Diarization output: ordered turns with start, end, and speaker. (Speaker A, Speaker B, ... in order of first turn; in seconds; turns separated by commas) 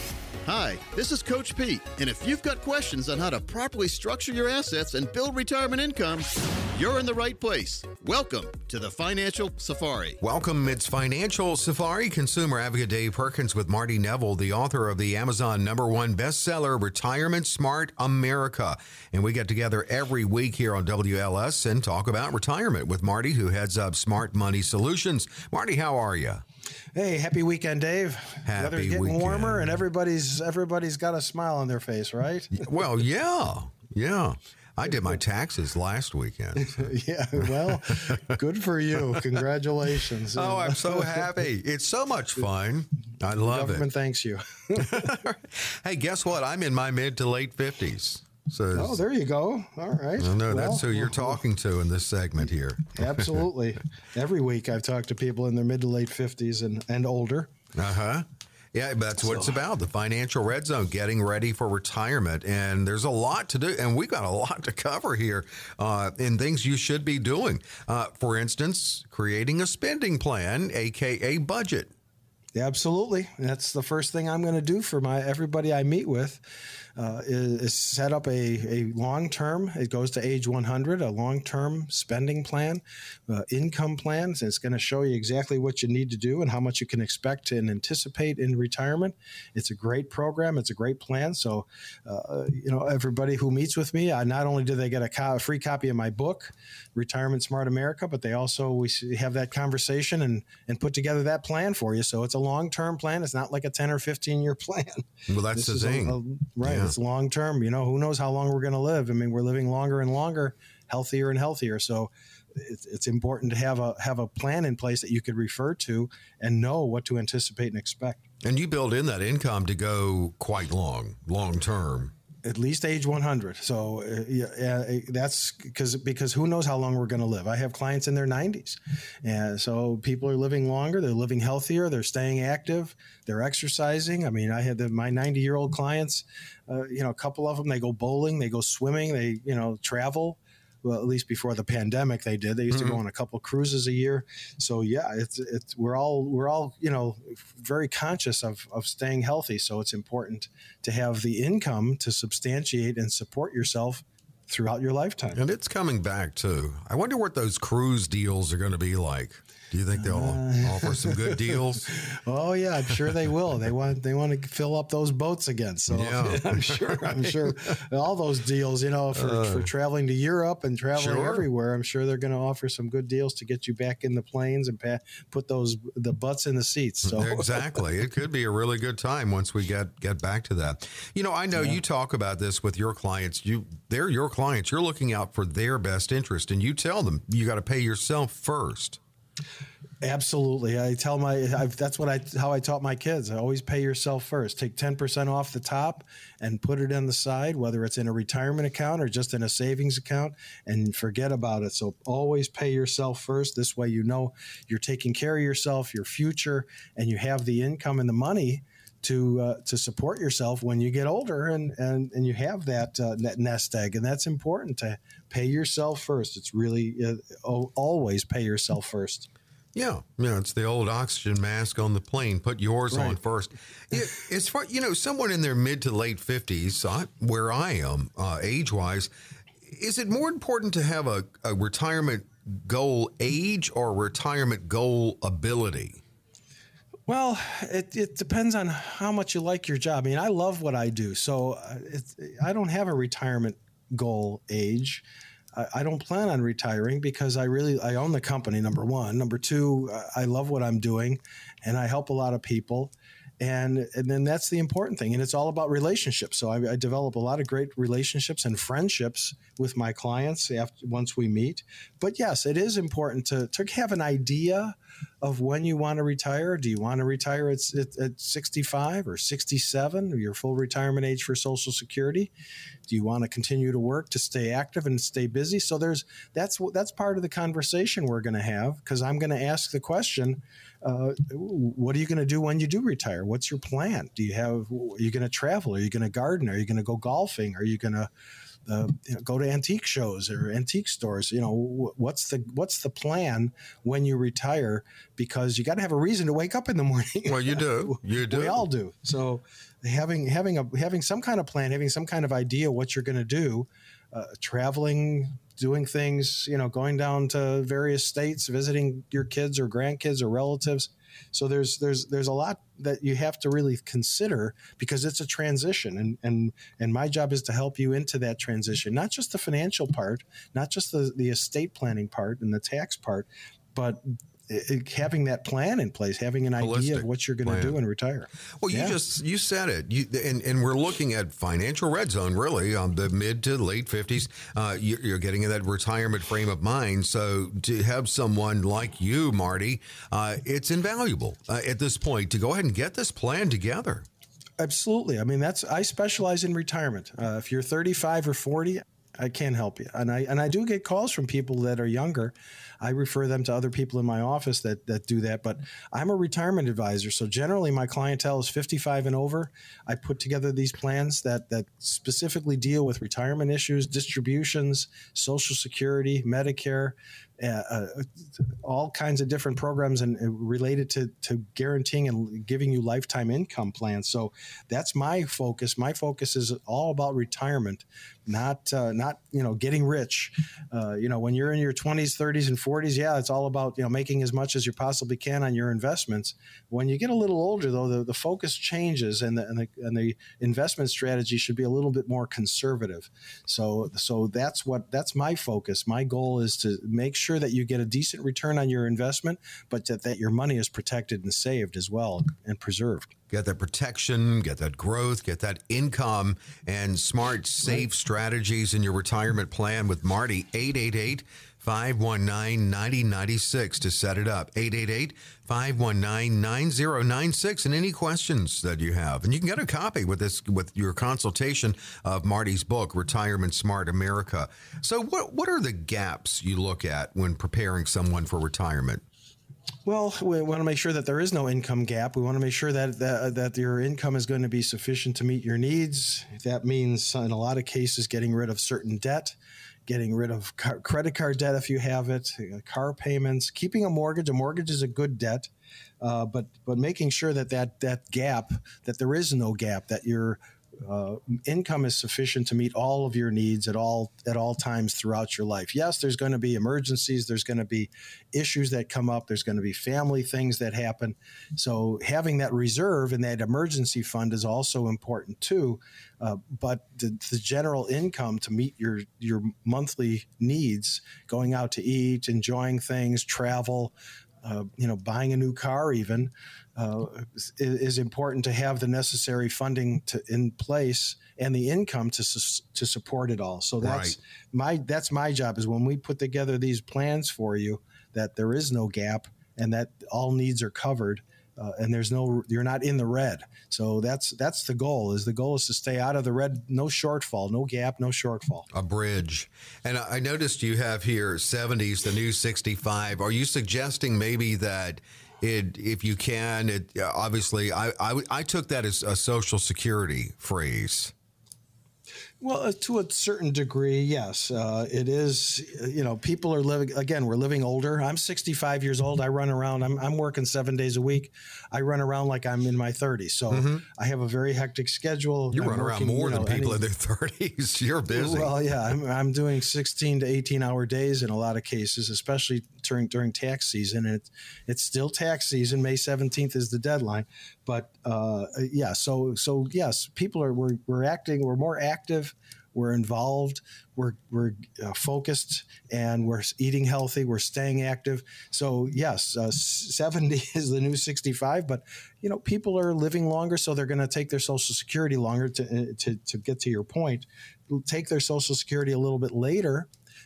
Speaker A: 0.4-10.2, Speaker B: 10.2-26.4, Speaker C: 26.9-32.7, Speaker B: 28.4-29.8, Speaker B: 32.5-38.2, Speaker C: 36.5-41.3, Speaker B: 40.3-43.9, Speaker C: 43.3-45.2, Speaker B: 44.8-49.0, Speaker C: 48.7-51.4, Speaker B: 50.2-53.4, Speaker C: 52.9-57.5, Speaker B: 57.7-71.9, Speaker C: 72.5-76.4, Speaker C: 77.0-118.2, Speaker B: 105.3-106.9, Speaker B: 118.4-122.1, Speaker C: 122.4-155.4, Speaker B: 142.7-143.0, Speaker B: 155.3-161.9, Speaker C: 159.9-177.7, Speaker B: 165.9-167.5, Speaker B: 169.1-169.7, Speaker B: 170.9-171.4, Speaker B: 177.0-189.0, Speaker C: 190.0-219.3, Speaker B: 219.7-229.1, Speaker C: 222.9-223.2, Speaker B: 229.6-236.0, Speaker C: 237.1-245.0, Speaker C: 245.5-272.3, Speaker C: 272.9-288.1, Speaker C: 288.6-329.0, Speaker B: 297.2-298.6, Speaker B: 326.6-327.8, Speaker B: 328.6-344.1, Speaker C: 344.6-403.1, Speaker B: 403.3-429.0, Speaker C: 429.9-439.4, Speaker C: 439.9-445.5, Speaker C: 446.0-498.7, Speaker B: 483.8-484.2, Speaker B: 498.7-511.1, Speaker C: 512.4-526.8, Speaker B: 523.5-523.8, Speaker B: 525.5-528.6, Speaker C: 528.1-559.9